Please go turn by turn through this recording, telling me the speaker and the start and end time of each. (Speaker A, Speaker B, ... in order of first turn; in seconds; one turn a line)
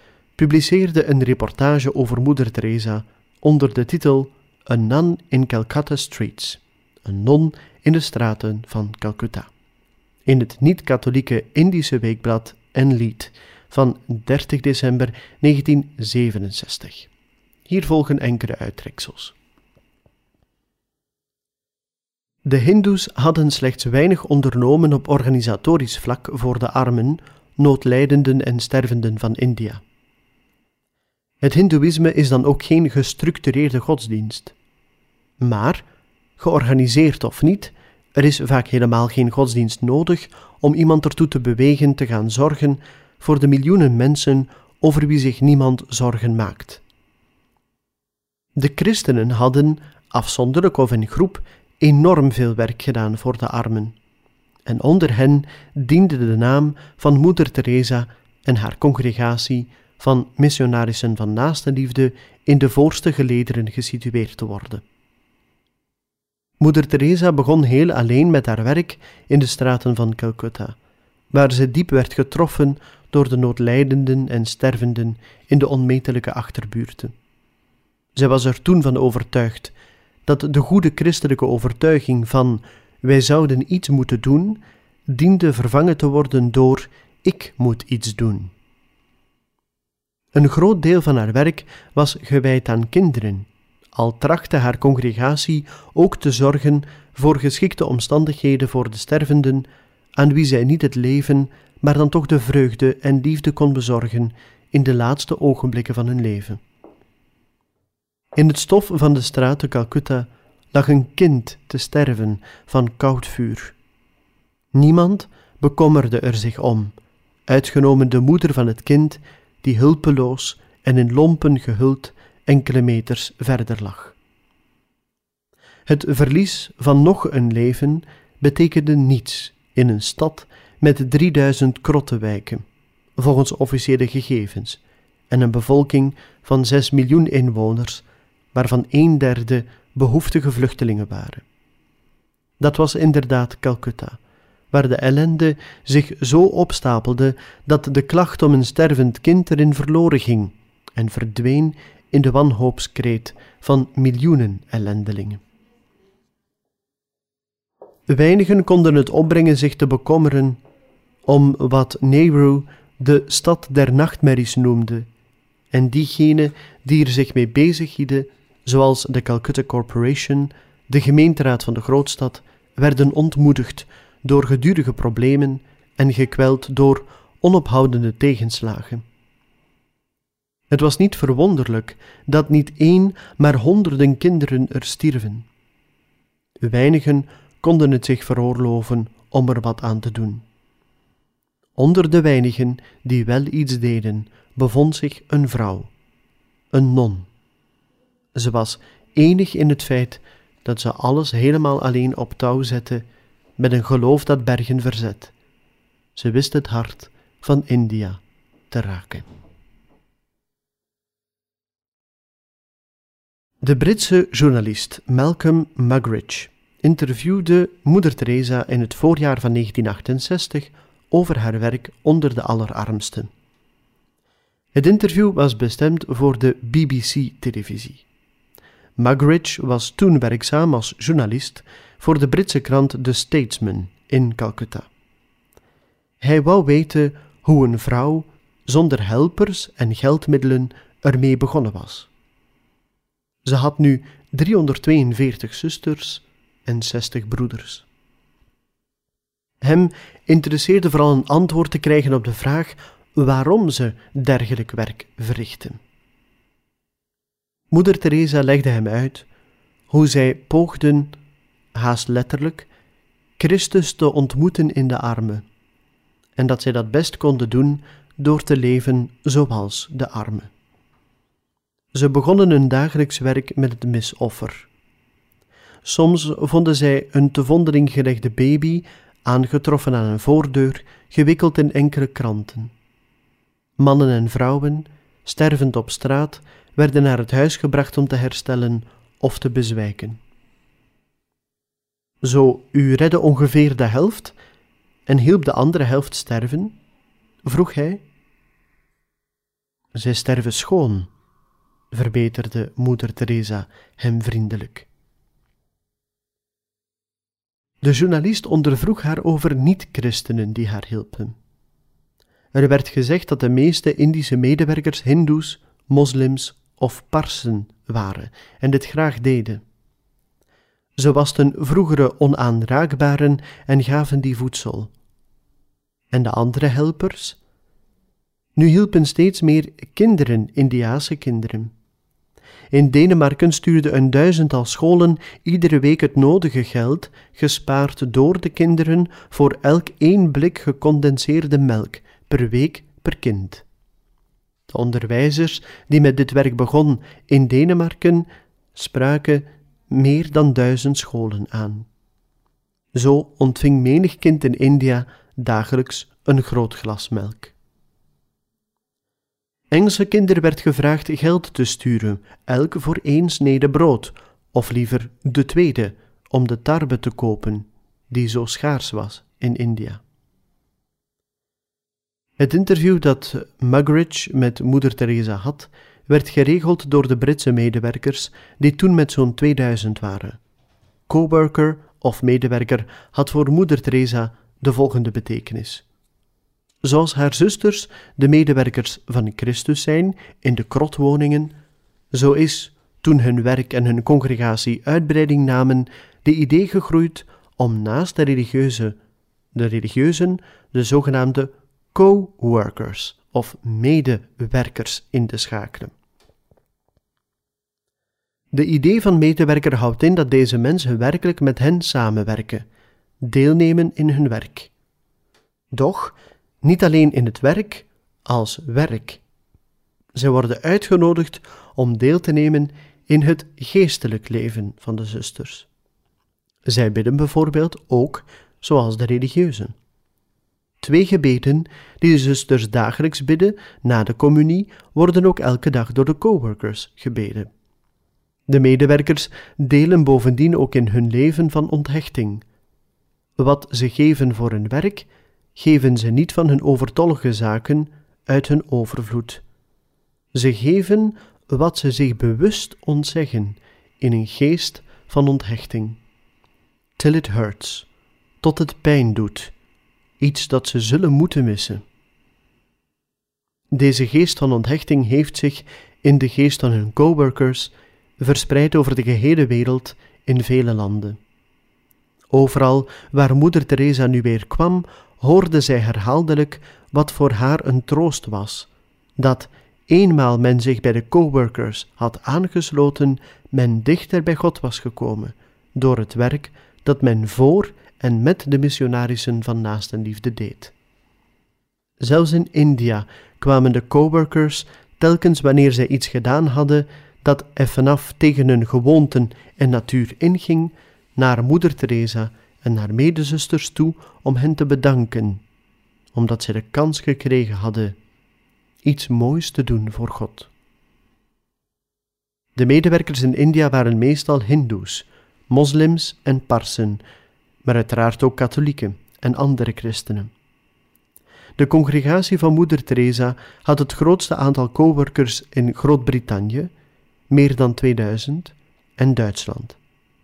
Speaker A: 0.4-9.5
Speaker A: 10.2-17.1
Speaker A: 17.6-19.4
Speaker A: 22.4-29.8
Speaker A: 31.4-34.5
Speaker A: 35.4-35.9
Speaker A: 36.4-46.8
Speaker A: 48.6-54.0
Speaker A: 54.6-64.8
Speaker A: 66.6-70.8
Speaker A: 71.3-77.1
Speaker A: 78.2-79.7
Speaker A: 80.2-88.5
Speaker A: 90.3-106.6
Speaker A: 108.4-113.8
Speaker A: 114.7-116.9
Speaker A: 117.5-124.2
Speaker A: 125.9-132.6
Speaker A: 133.2-141.4
Speaker A: 142.6-144.2
Speaker A: 144.7-155.4
Speaker A: 158.1-160.6
Speaker A: 161.2-165.1
Speaker A: 165.7-179.0
Speaker A: 180.7-185.5
Speaker A: 186.6-190.4
Speaker A: 191.8-195.9
Speaker A: 196.7-197.3
Speaker A: 198.4-203.0
Speaker A: 203.6-205.3
Speaker A: 206.2-209.2
Speaker A: 213.6-223.3
Speaker A: 224.7-228.0
Speaker A: 229.0-234.9
Speaker A: 236.2-242.1
Speaker A: 243.4-247.9
Speaker A: 249.6-255.8
Speaker A: 257.7-259.3
Speaker A: 259.9-261.1
Speaker A: 261.7-262.7
Speaker A: 263.4-265.4
Speaker A: 266.4-270.5
Speaker A: 271.9-274.7
Speaker A: 275.9-282.7
Speaker A: 283.8-290.2
Speaker A: 292.2-294.4
Speaker A: 295.1-296.8
Speaker A: 297.4-298.0
Speaker A: 299.9-301.1
Speaker A: 301.9-304.9
Speaker A: 307.8-311.4
Speaker A: 312.5-319.6
Speaker A: 321.0-324.9
Speaker A: 326.1-327.4
Speaker A: 328.6-331.7
Speaker A: 332.7-343.6
Speaker A: 344.7-351.9
Speaker A: 352.9-357.5
Speaker A: 359.7-370.0
Speaker A: 372.4-380.4
Speaker A: 381.1-385.8
Speaker A: 386.8-391.5
Speaker A: 392.1-398.9
Speaker A: 399.5-405.9
Speaker A: 408.5-412.6
Speaker A: 413.2-414.7
Speaker A: 415.7-419.2
Speaker A: 420.1-425.7
Speaker A: 426.6-429.7
Speaker A: 430.8-437.5
Speaker A: 438.5-442.4
Speaker A: 443.4-449.4
Speaker A: 450.4-456.0
Speaker A: 457.0-457.9
Speaker A: 458.4-459.5
Speaker A: 460.2-461.8
Speaker A: 463.7-471.2
Speaker A: 472.3-490.7
Speaker A: 492.0-505.4
Speaker A: 506.1-507.9
Speaker A: 508.8-510.5
Speaker A: 512.6-517.0
Speaker A: 517.6-520.3
Speaker A: 521.6-526.7
Speaker A: 527.3-529.8